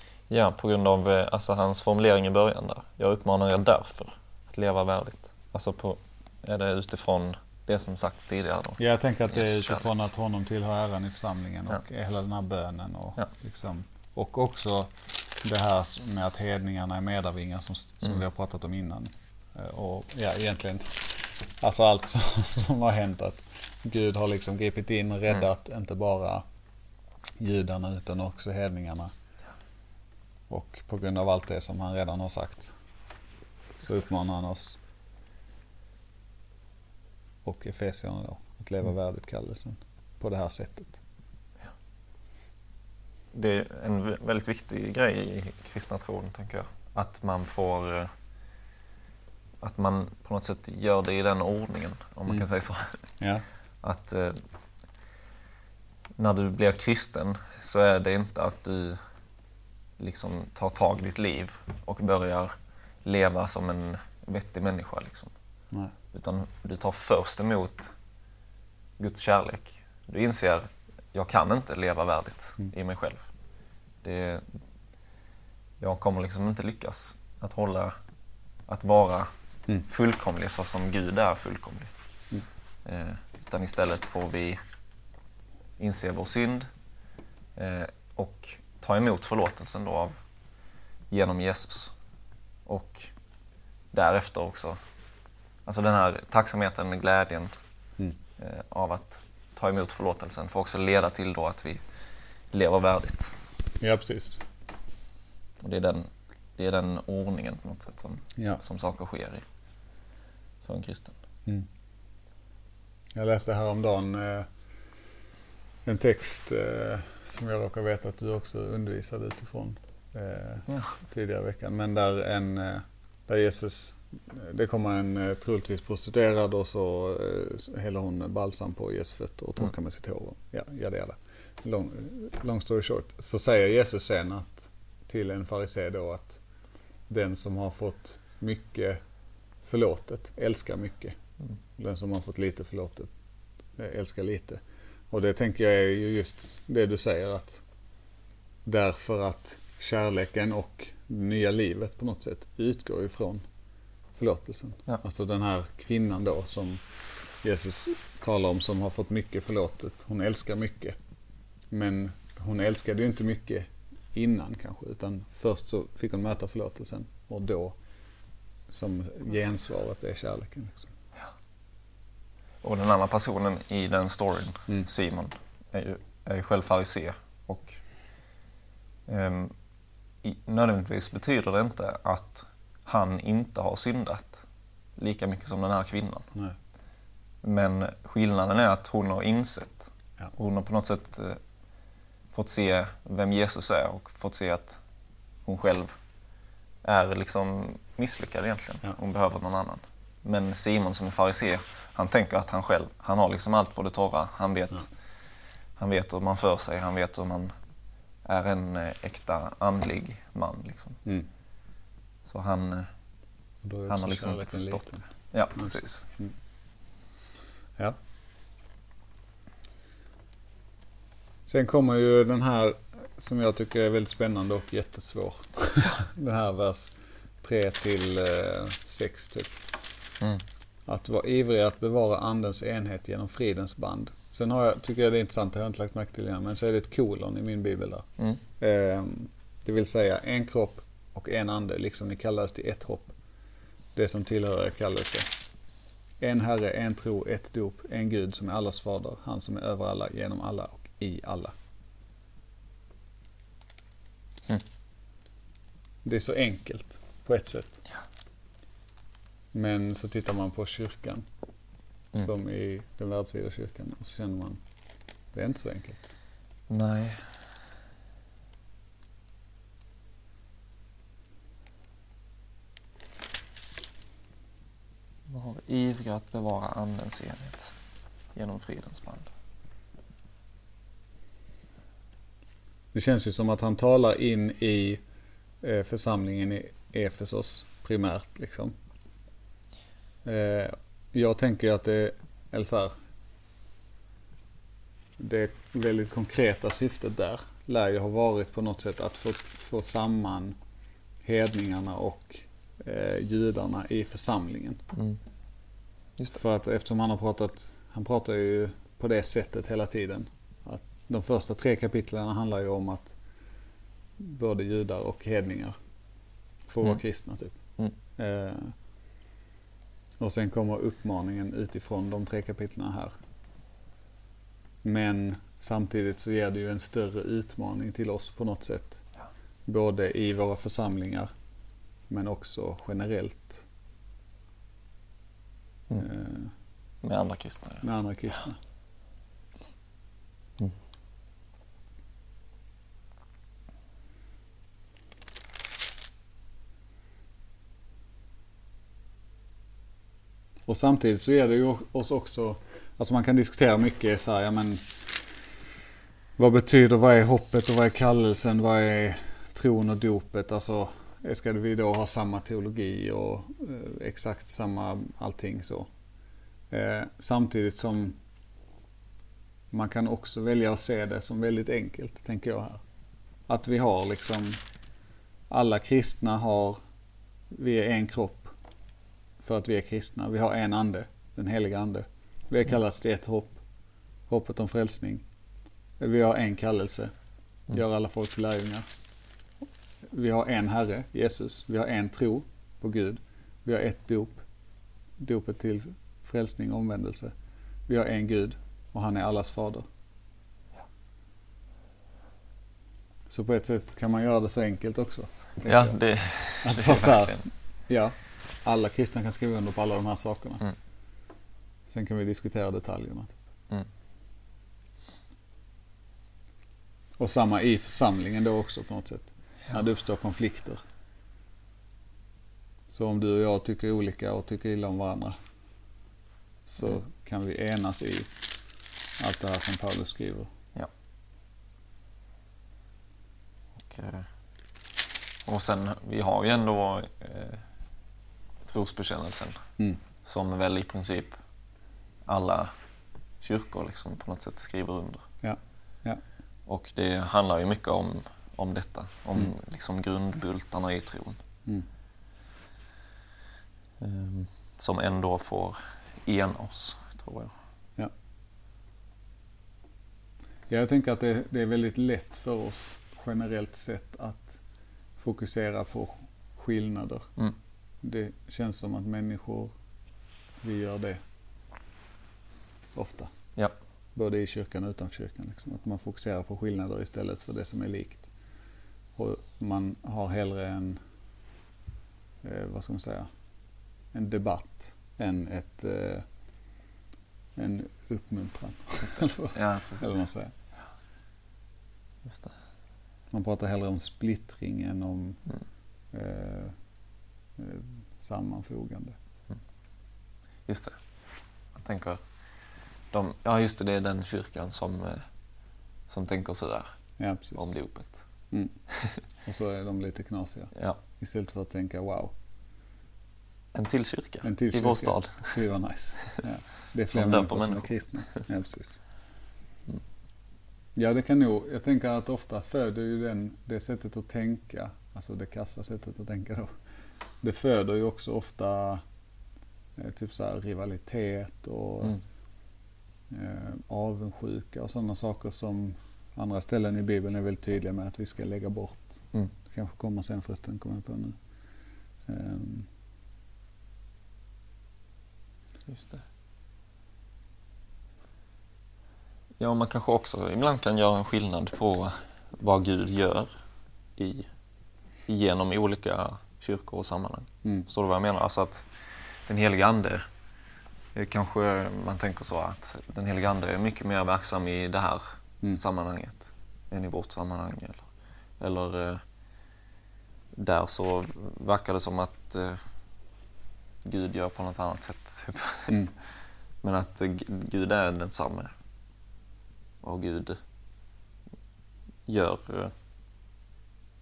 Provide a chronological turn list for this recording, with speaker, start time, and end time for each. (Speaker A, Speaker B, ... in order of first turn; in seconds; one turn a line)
Speaker A: 0.3-8.8
Speaker B: 8.8-26.4
Speaker A: 9.3-9.9
Speaker B: 27.4-29.1
Speaker B: 30.5-32.7
Speaker B: 33.8-34.8
Speaker B: 37.4-41.0
Speaker A: 43.3-48.1
Speaker A: 49.6-53.1
Speaker B: 53.2-53.5
Speaker A: 53.8-54.4
Speaker A: 56.2-59.0
Speaker A: 60.0-62.5
Speaker A: 63.0-65.3
Speaker A: 66.1-68.0
Speaker A: 69.0-73.2
Speaker A: 74.0-74.6
Speaker A: 75.8-78.0
Speaker A: 78.7-79.3
Speaker A: 79.8-81.9
Speaker A: 82.8-84.6
Speaker A: 85.8-86.7
Speaker A: 87.6-90.2
Speaker A: 91.1-91.9
Speaker A: 92.7-93.1
Speaker A: 93.9-94.8
Speaker A: 95.7-97.5
Speaker A: 98.4-101.8
Speaker A: 102.5-103.4
Speaker B: 103.8-104.4
Speaker A: 105.6-109.5
Speaker A: 110.6-111.2
Speaker B: 113.1-114.5
Speaker B: 115.8-136.4
Speaker A: 120.7-121.0
Speaker B: 137.1-139.0
Speaker B: 139.6-141.2
Speaker B: 141.8-143.1
Speaker B: 143.8-147.6
Speaker B: 148.7-153.4
Speaker B: 154.2-156.8
Speaker B: 157.4-161.0
Speaker B: 161.7-167.8
Speaker B: 168.7-170.9
Speaker A: 172.6-177.8
Speaker A: 179.1-179.5
Speaker A: 180.2-184.4
Speaker A: 185.0-186.3
Speaker A: 187.4-191.4
Speaker A: 192.3-194.8
Speaker A: 195.5-196.0
Speaker A: 196.8-204.9
Speaker A: 205.8-207.5
Speaker A: 208.2-211.0
Speaker A: 212.2-212.9
Speaker B: 213.6-215.0
Speaker A: 213.9-216.0
Speaker B: 215.6-216.3
Speaker B: 221.5-229.6
Speaker B: 230.9-238.1
Speaker B: 238.6-243.1
Speaker B: 243.9-245.3
Speaker B: 246.2-251.5
Speaker B: 256.0-257.8
Speaker B: 259.5-261.3
Speaker B: 262.2-264.6
Speaker B: 265.3-266.0
Speaker A: 266.7-267.3
Speaker A: 275.3-277.8
Speaker A: 278.4-279.3
Speaker B: 282.9-285.0
Speaker B: 285.6-288.8
Speaker B: 290.2-292.9
Speaker B: 295.2-300.6
Speaker B: 301.2-304.8
Speaker B: 306.3-313.2
Speaker B: 314.2-315.8
Speaker B: 316.7-317.6
Speaker B: 318.2-318.8
Speaker B: 320.2-323.1
Speaker B: 324.8-329.0
Speaker B: 329.7-331.3
Speaker B: 332.1-333.7
Speaker B: 336.0-336.5
Speaker A: 337.0-337.9
Speaker B: 337.8-338.6
Speaker B: 350.7-355.1
Speaker B: 356.4-365.9
Speaker B: 366.7-368.2
Speaker B: 369.7-372.8
Speaker B: 373.5-374.6
Speaker B: 375.5-376.8
Speaker B: 377.5-378.5
Speaker B: 379.4-383.6
Speaker B: 384.3-385.2
Speaker B: 386.0-387.1
Speaker B: 387.7-388.9
Speaker B: 390.1-394.4
Speaker B: 395.2-397.3
Speaker B: 397.9-399.9
Speaker B: 403.3-406.0
Speaker A: 405.6-407.5
Speaker B: 406.6-410.6
Speaker B: 411.9-413.4
Speaker B: 417.2-420.8
Speaker B: 422.9-425.4
Speaker B: 426.7-428.3
Speaker B: 429.2-430.5
Speaker A: 433.8-434.3
Speaker A: 435.5-437.6
Speaker A: 438.7-439.6
Speaker A: 440.2-441.4
Speaker A: 442.3-442.7
Speaker A: 443.4-445.3
Speaker B: 445.4-446.2
Speaker A: 446.7-451.4
Speaker A: 454.0-457.5
Speaker B: 460.7-464.6
Speaker B: 465.2-467.3
Speaker B: 468.0-469.7
Speaker B: 470.6-471.2
Speaker B: 472.9-473.3
Speaker B: 474.2-478.2
Speaker B: 479.2-481.0
Speaker B: 482.4-483.3
Speaker B: 484.1-486.3
Speaker B: 487.6-490.5
Speaker A: 489.0-490.2
Speaker A: 492.2-492.6
Speaker B: 493.3-495.4
Speaker B: 496.1-496.8
Speaker B: 497.6-499.2
Speaker A: 500.7-501.0
Speaker A: 501.8-502.2
Speaker A: 503.1-505.3
Speaker A: 506.1-506.9
Speaker B: 507.2-507.7
Speaker A: 507.6-508.3
Speaker B: 508.5-508.8
Speaker A: 508.9-509.2
Speaker B: 509.4-512.3
Speaker A: 513.7-515.6
Speaker B: 514.4-519.0
Speaker A: 517.1-518.4
Speaker B: 521.0-526.7
Speaker B: 527.4-529.0
Speaker B: 530.0-532.2
Speaker B: 533.3-541.4
Speaker B: 542.3-542.9
Speaker A: 545.9-546.2
Speaker A: 549.6-553.5
Speaker A: 554.2-554.5
Speaker A: 555.3-560.2
Speaker A: 561.1-569.2
Speaker A: 570.5-572.8
Speaker A: 574.0-576.0
Speaker A: 576.8-578.7
Speaker A: 580.0-580.6
Speaker A: 582.3-582.9